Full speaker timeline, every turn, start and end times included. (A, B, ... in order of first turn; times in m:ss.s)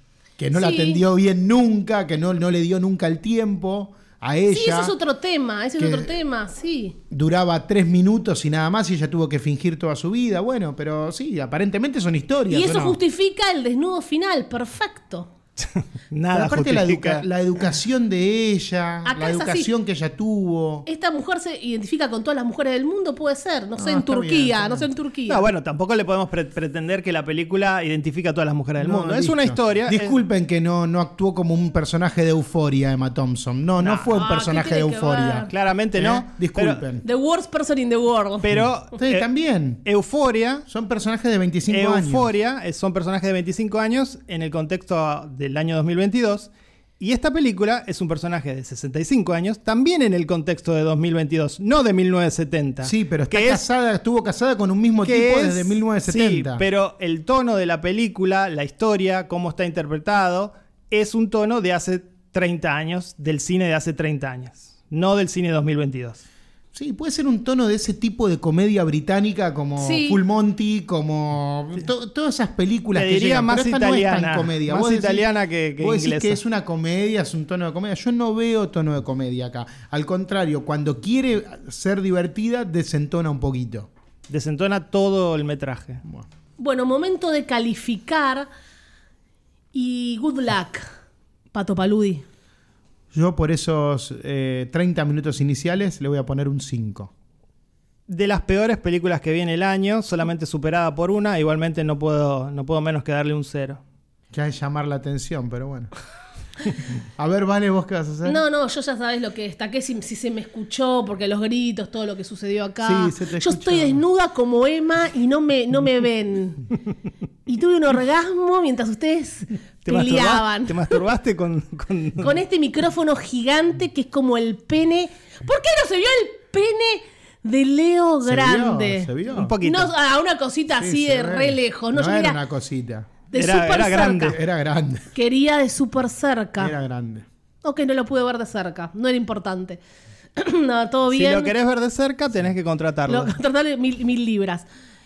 0:00.4-0:04.9 A
0:00.5-0:01.0 B
0:04.5-0:07.0 B
0:05.8-0:06.1 A
0:07.1-0:13.0 A
0:12.5-0:15.3 B
0:15.6-0:17.3 C
0:16.3-0:20.8 A
0:19.0-0:19.7 B
0:20.8-0:25.4 B
0:23.8-0:24.9 A
0:25.3-0:30.2 C
0:28.8-0:37.0 A
0:33.8-0:34.1 C
0:34.1-0:35.5 B
0:35.5-0:36.8 C
0:37.0-0:38.4 B
0:38.4-0:39.3 C
0:39.0-0:39.8 A
0:39.8-0:40.6 C
0:40.7-0:42.3 A
0:41.7-0:46.5 C
0:47.0-0:53.6 C
0:52.8-0:56.6 A
0:55.0-1:06.2 C
1:06.7-1:15.2 A
1:09.8-1:10.2 B
1:12.9-1:16.4 C
1:15.8-1:23.9 A
1:24.3-1:26.0 C
1:26.6-1:28.5 B
1:29.7-1:30.9 B
1:31.5-1:32.2 B
1:33.1-1:37.1 A
1:38.1-1:43.8 C
1:44.3-1:45.9 A
1:47.2-1:48.4 A
1:48.2-1:56.7 B
1:52.8-1:54.0 A
1:57.4-2:01.0 B
1:59.8-2:02.4 C
2:02.2-2:09.1 B
2:08.2-2:09.6 A
2:09.3-2:09.9 C
2:09.6-2:12.4 B
2:10.8-2:13.1 A
2:13.3-2:14.4 B
2:13.3-2:14.4 C
2:14.2-2:15.1 A
2:15.1-2:16.7 B
2:16.6-2:17.2 A
2:17.6-2:19.8 B
2:20.4-2:21.5 B
2:21.1-2:23.3 C
2:23.1-2:24.6 B